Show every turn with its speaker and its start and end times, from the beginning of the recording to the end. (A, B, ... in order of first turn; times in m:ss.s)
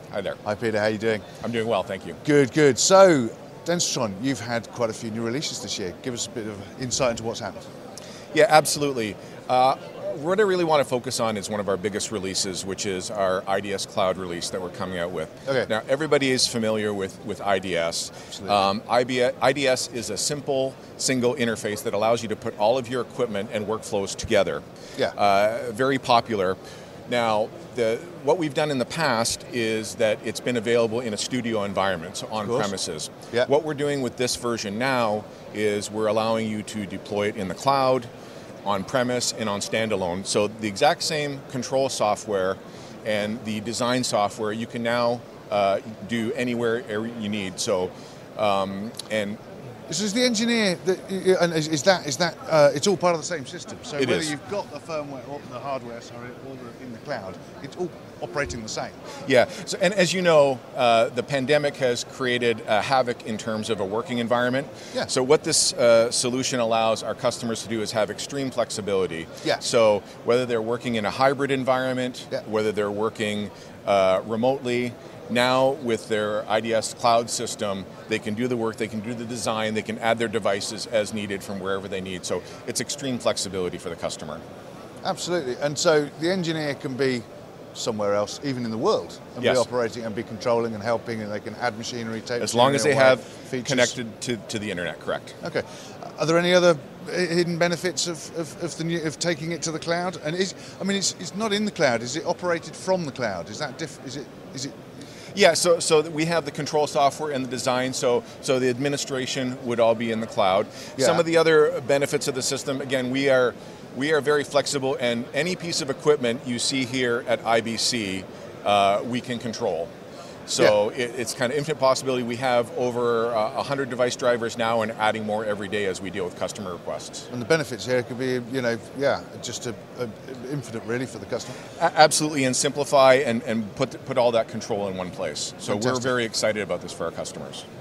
0:00.1-0:00.4 A
0:00.4-0:01.2 B
0:01.4-0:02.2 A
0:02.2-0:07.7 B
0:08.3-0:24.6 A
0:25.1-0:38.1 A
0:32.4-0:32.7 B
0:38.6-0:49.4 A
0:49.9-0:59.0 B
0:54.0-0:54.3 A
0:59.2-1:24.4 A
1:25.0-1:33.9 B
1:32.4-1:35.4 A
1:35.4-1:44.7 B
1:45.3-1:59.9 A
1:51.0-1:51.2 B
2:00.5-2:07.3 A
2:07.3-2:11.6 B
2:11.8-2:17.6 A
2:15.6-2:16.1 B